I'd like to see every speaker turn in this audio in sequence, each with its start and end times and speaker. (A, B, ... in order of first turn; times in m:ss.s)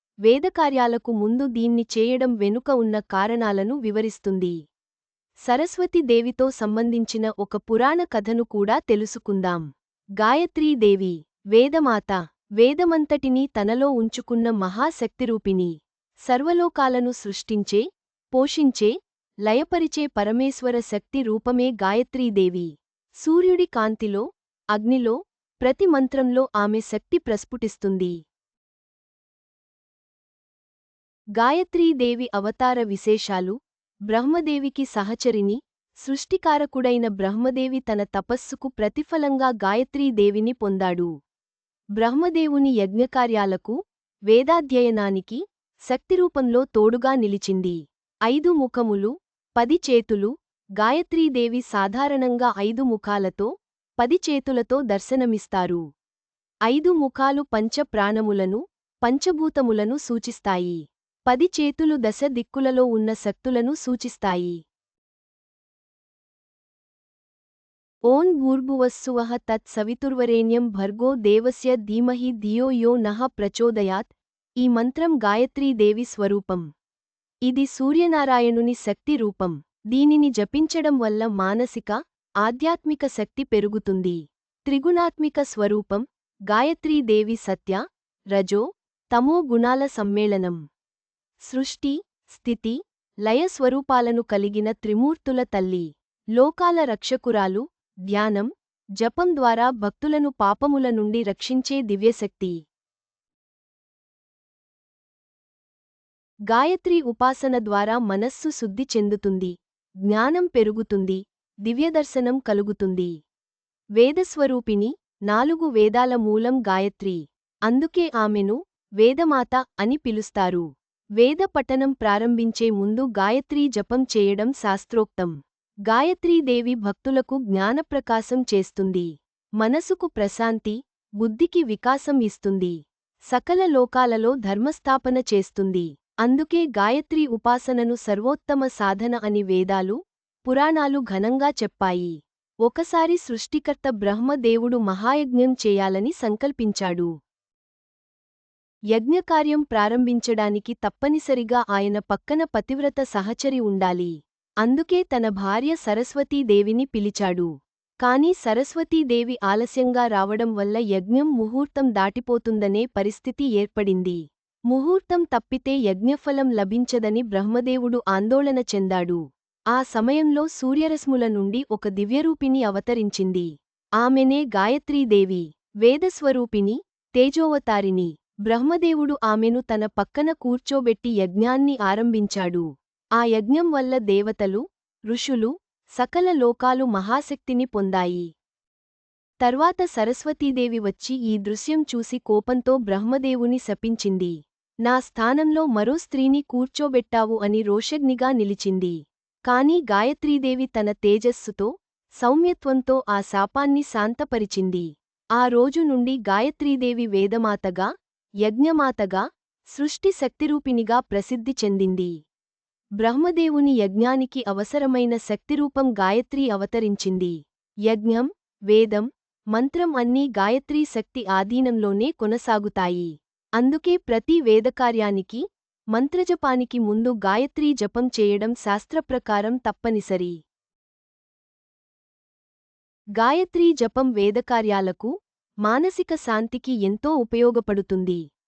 0:00.3-0:04.6 A
0:05.5-0:09.6 A
0:10.2-0:15.7 A
0:16.3-0:17.8 A
0:18.3-0:18.9 A
0:19.5-0:22.7 A
0:23.2-0:28.1 A
0:31.4-0:33.6 A
0:34.1-0:41.1 A
0:42.0-0:43.8 A
0:44.3-0:53.5 A
0:54.0-0:55.8 A
0:56.7-1:04.6 A
1:08.1-1:16.7 A
1:17.5-1:27.8 A
1:28.3-1:28.6 A
1:29.1-1:30.6 A
1:31.5-1:42.6 A
1:46.5-1:49.5 A
1:50.1-1:53.1 A
1:54.0-2:00.6 A
2:01.2-2:05.3 A
2:05.9-2:09.1 A
2:09.6-2:12.8 A
2:13.3-2:22.1 A
2:22.6-2:27.1 A
2:28.9-2:34.1 A
2:34.6-2:37.5 A
2:38.0-2:44.2 A
2:44.7-2:49.2 A
2:49.7-2:53.5 A
2:54.0-3:02.7 A
3:03.2-3:08.3 A
3:09.4-3:14.4 A
3:14.9-3:19.0 A
3:19.5-3:21.7 A
3:22.2-3:27.9 A
3:28.4-3:32.1 A
3:33.0-3:37.4 A
3:37.9-3:45.4 A
3:45.9-3:50.4 A
3:53.2-3:55.1 A
3:55.7-3:58.2 A